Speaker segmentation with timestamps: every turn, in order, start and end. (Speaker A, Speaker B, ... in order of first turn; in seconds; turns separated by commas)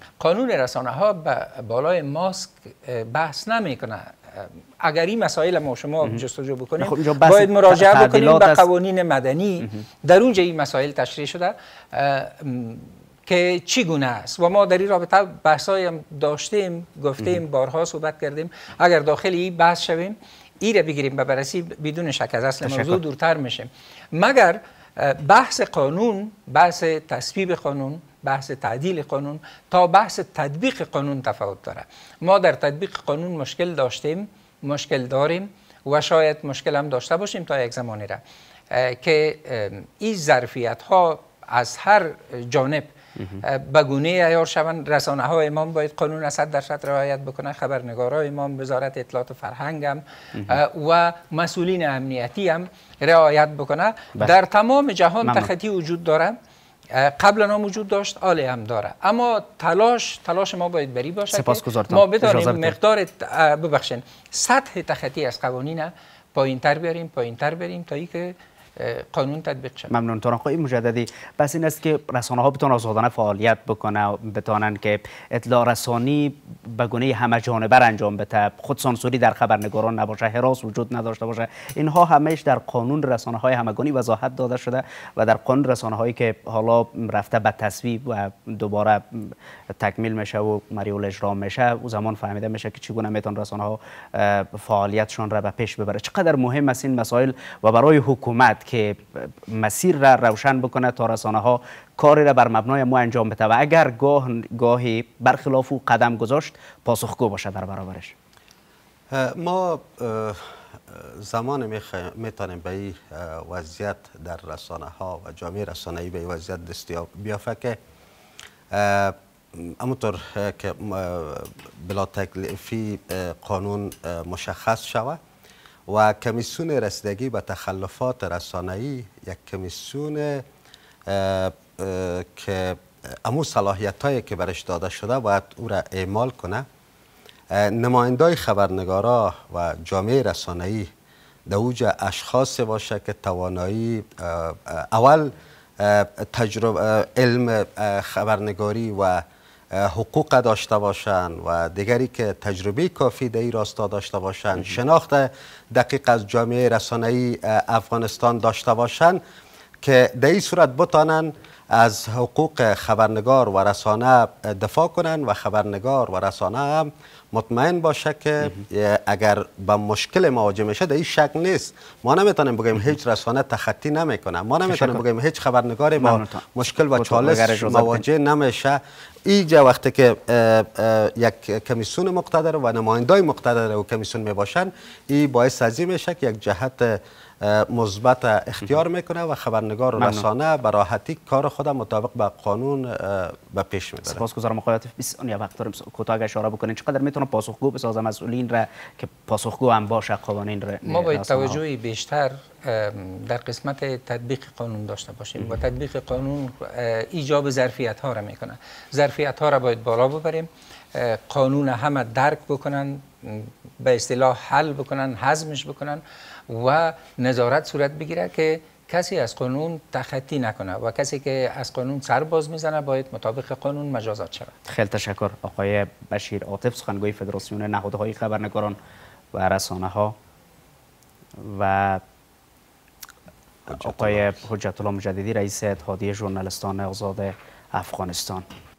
Speaker A: 0.2-38.2, Speaker B: 6.8-8.7, Speaker B: 22.6-23.0, Speaker A: 38.7-56.4, Speaker B: 55.2-55.5, Speaker A: 56.9-69.9, Speaker B: 61.3-62.8, Speaker B: 69.9-108.1, Speaker C: 109.1-117.8, Speaker C: 118.7-125.2, Speaker C: 125.9-130.4, Speaker C: 131.1-136.7, Speaker C: 137.5-140.9, Speaker C: 141.5-159.2, Speaker C: 159.8-194.2, Speaker B: 174.7-175.0, Speaker B: 176.0-178.0, Speaker B: 190.0-190.2, Speaker B: 194.1-201.6, Speaker A: 200.9-224.5, Speaker B: 224.7-228.8, Speaker B: 229.3-230.2, Speaker B: 231.4-232.0, Speaker C: 233.7-234.2, Speaker B: 233.7-238.4